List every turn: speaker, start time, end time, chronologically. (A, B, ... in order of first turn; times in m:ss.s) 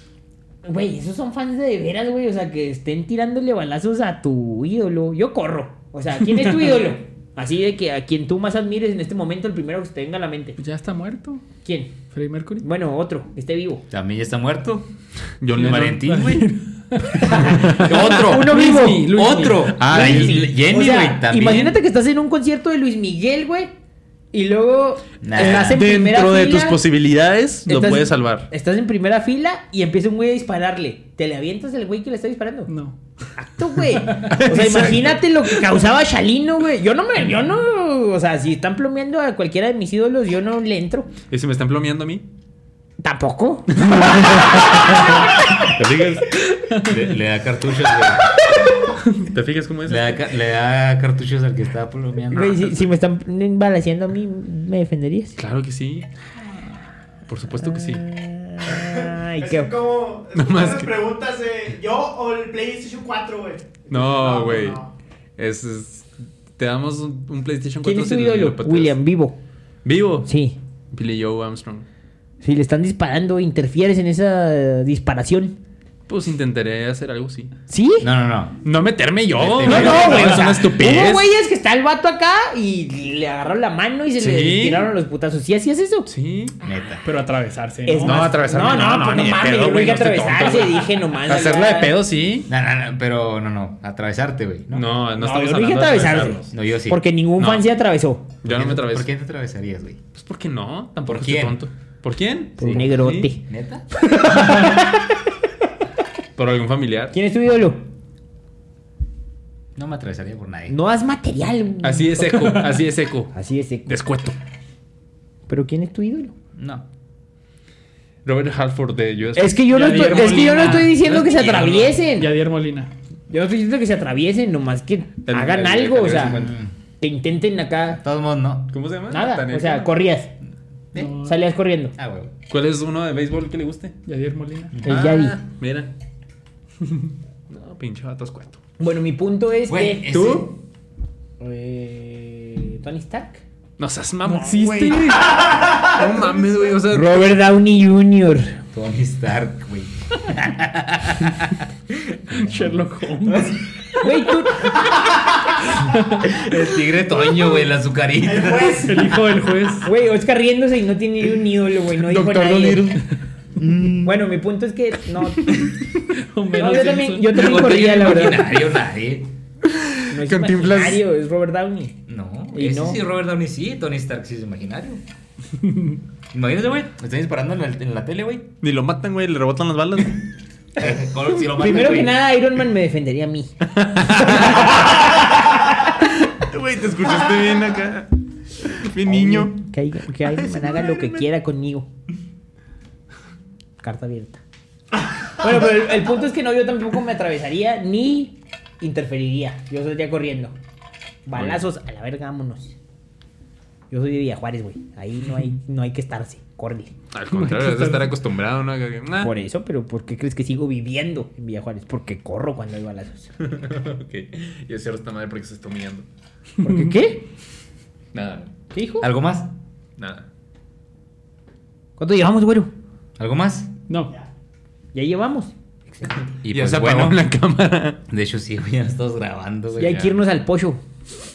0:00.6-0:10.6 A
0:10.6-0:11.4 B
0:11.6-0:12.0 A
0:12.1-0:12.7 B
0:12.6-0:13.8 A
0:13.9-0:14.9 C
0:15.4-0:16.4 D
0:15.5-0:16.5 C
0:15.6-0:19.8 B
0:17.1-0:18.2 D
0:17.3-0:23.7 A
0:17.8-0:21.8 C
0:19.8-0:20.5 D
0:24.3-0:26.8 A
0:25.2-0:25.8 C
0:25.4-0:28.5 D
0:27.7-0:32.7 A
0:32.7-0:33.0 B
0:33.4-0:41.1 A
0:33.8-0:34.9 B
0:34.3-0:35.1 D
0:41.3-0:42.2 D
0:43.0-0:45.7 A
0:43.7-0:46.4 D
0:46.8-0:48.3 C
0:49.2-0:50.2 D
0:49.9-0:52.9 C
0:52.3-0:55.4 A
0:55.4-0:56.1 D
0:57.3-0:58.1 D
0:57.6-0:59.7 A
0:58.7-1:04.9 E
1:00.3-1:01.0 D
1:03.9-1:04.8 D
1:05.4-1:06.1 D
1:06.6-1:09.0 D
1:07.8-1:09.4 A
1:09.8-1:10.3 D
1:10.2-1:10.6 A
1:10.9-1:11.9 D
1:12.4-1:15.6 A
1:16.1-1:17.5 D
1:17.7-1:18.1 A
1:18.0-1:18.6 C
1:18.6-1:21.3 D
1:19.4-1:20.5 C
1:19.6-1:26.1 A
1:24.2-1:24.9 D
1:26.1-1:26.5 D
1:26.6-1:27.0 C
1:27.0-1:29.1 B
1:27.9-1:32.0 A
1:28.0-1:32.5 D
1:32.5-1:34.9 C
1:34.7-1:36.6 D
1:35.2-1:38.3 A
1:36.5-1:37.0 C
1:37.4-1:37.7 D
1:38.4-1:39.1 D
1:38.4-1:40.0 C
1:40.2-1:43.3 D
1:41.1-1:41.6 C
1:42.6-1:43.4 A
1:42.6-1:43.9 C
1:44.0-1:45.2 A
1:46.4-1:47.1 D
1:47.1-1:47.8 A
1:49.8-1:50.8 C
1:50.7-1:52.6 A
1:51.8-1:53.3 D
1:53.3-1:54.0 A
1:53.9-1:54.4 D
1:55.5-1:56.3 A
1:56.6-1:56.9 C
1:58.2-2:02.0 D
1:59.4-2:02.3 A
1:59.7-2:00.9 B
2:02.1-2:02.9 B
2:03.3-2:06.5 A
2:05.3-2:06.5 D
2:06.0-2:06.7 C
2:07.0-2:08.0 A
2:07.9-2:08.7 C
2:08.7-2:09.9 D
2:09.1-2:10.3 A
2:10.9-2:11.4 B
2:11.2-2:11.9 A
2:12.0-2:12.3 C
2:12.5-2:14.0 D
2:14.1-2:14.8 B
2:14.7-2:15.0 C
2:14.8-2:15.9 D
2:14.8-2:15.4 A
2:16.8-2:17.1 B
2:17.5-2:18.6 D
2:18.8-2:20.4 A
2:19.7-2:20.6 C
2:20.1-2:20.5 D
2:21.4-2:23.4 A
2:23.8-2:27.3 D
2:24.2-2:25.6 B
2:26.9-2:28.6 A
2:28.7-2:32.6 C
2:32.3-2:34.3 B
2:33.3-2:33.6 C
2:34.0-2:34.9 A
2:35.7-2:36.3 B
2:36.2-2:39.0 C
2:38.2-2:39.3 E
2:38.9-2:39.9 B
2:39.8-2:43.0 A
2:42.0-2:43.0 D
2:43.6-2:44.2 C
2:44.0-2:45.7 A
2:46.1-2:47.4 B
2:46.5-2:48.5 A
2:47.3-2:49.3 C
2:49.6-2:51.0 D
2:50.1-2:52.0 A
2:52.1-2:55.0 C
2:52.5-2:53.0 A
2:55.6-2:56.0 B
2:56.3-2:58.5 C
2:58.6-3:00.3 D
3:00.8-3:02.2 C
3:01.5-3:05.1 A
3:03.8-3:05.1 D
3:05.8-3:09.6 D
3:09.0-3:11.9 A
3:10.2-3:11.2 D
3:13.8-3:14.4 A
3:15.3-3:20.6 A
3:21.3-3:22.8 A
3:21.4-3:21.6 D
3:23.9-3:26.9 A
3:27.1-3:29.3 D
3:27.3-3:28.1 B
3:29.2-3:33.3 A
3:33.4-3:36.1 D
3:36.6-3:36.9 B
3:36.6-3:37.2 A
3:38.1-3:38.5 D
3:38.7-3:39.1 A
3:39.0-3:39.5 C
3:40.0-3:40.3 D
3:42.0-3:42.7 A
3:43.2-3:43.7 C
3:43.9-3:44.1 B
3:44.9-3:46.3 A
3:46.4-3:47.2 C
3:46.5-3:48.0 D
3:48.1-3:50.1 C
3:49.8-3:50.8 A
3:49.9-3:50.2 D